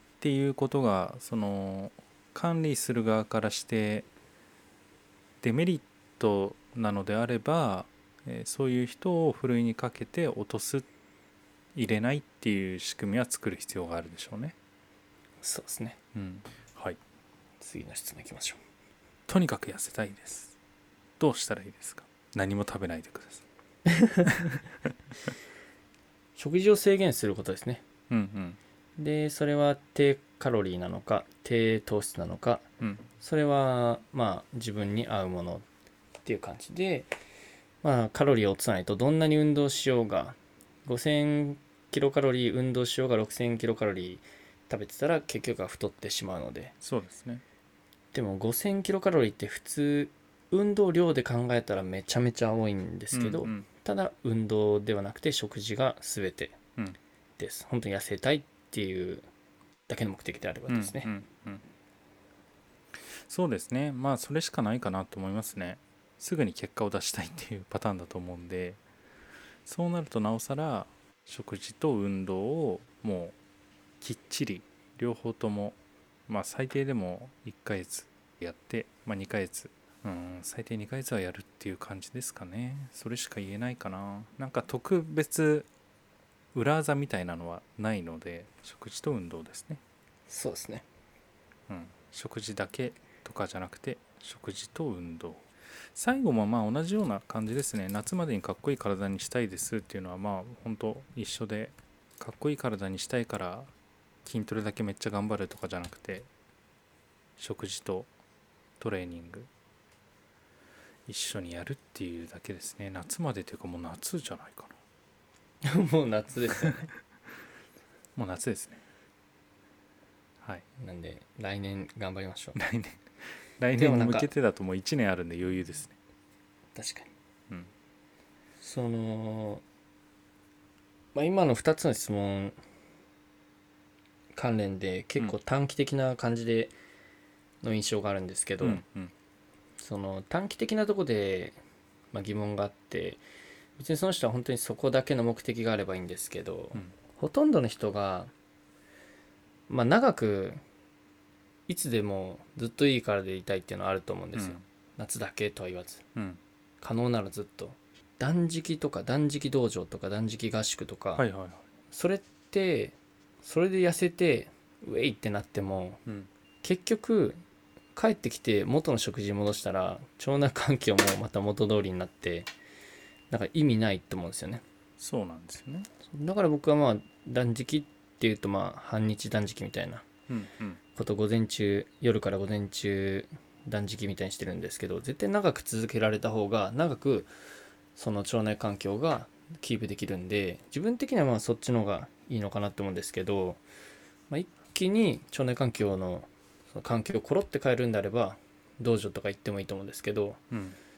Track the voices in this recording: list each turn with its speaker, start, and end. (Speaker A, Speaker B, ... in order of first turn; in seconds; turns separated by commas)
Speaker A: 0.2-4.1, Speaker A: 5.4-10.9, Speaker A: 11.7-14.6, Speaker B: 15.4-16.0, Speaker A: 16.1-17.0, Speaker B: 17.6-18.6, Speaker A: 19.3-20.6, Speaker A: 21.2-23.4, Speaker B: 23.9-24.5, Speaker A: 24.2-24.9, Speaker B: 26.4-27.8, Speaker A: 28.1-28.6, Speaker B: 29.0-32.6, Speaker A: 32.8-33.0, Speaker B: 33.2-35.6, Speaker B: 36.2-37.1, Speaker B: 37.8-46.7, Speaker A: 46.8-47.4, Speaker B: 48.1-56.6, Speaker A: 53.1-53.7, Speaker B: 57.4-59.2, Speaker B: 59.9-61.1, Speaker A: 60.7-61.6, Speaker A: 63.1-68.8, Speaker A: 69.6-73.3, Speaker A: 74.0-85.7, Speaker A: 86.5-89.8, Speaker B: 90.3-90.8, Speaker A: 91.7-103.7, Speaker A: 104.2-106.3, Speaker A: 107.4-108.1, Speaker A: 108.8-109.5, Speaker A: 111.1-114.8, Speaker B: 115.6-116.9, Speaker A: 118.2-118.8, Speaker B: 120.8-122.6, Speaker A: 122.5-123.0, Speaker A: 123.6-126.0, Speaker B: 123.8-124.3, Speaker B: 126.7-127.1, Speaker B: 128.6-129.6, Speaker B: 131.1-132.6, Speaker B: 134.3-136.7, Speaker B: 137.6-138.8, Speaker A: 138.6-139.1, Speaker B: 139.8-141.6, Speaker B: 142.1-143.2, Speaker B: 143.8-148.3, Speaker B: 149.7-150.6, Speaker B: 151.7-156.0, Speaker A: 154.3-154.6, Speaker B: 156.8-161.2, Speaker A: 161.2-161.6, Speaker B: 161.9-166.0, Speaker B: 166.6-167.4, Speaker B: 167.9-172.5, Speaker B: 173.3-174.6, Speaker A: 175.0-175.9, Speaker B: 176.1-180.1, Speaker A: 180.3-180.8, Speaker B: 180.9-187.3, Speaker B: 187.9-193.6, Speaker B: 194.3-200.4, Speaker A: 200.5-200.8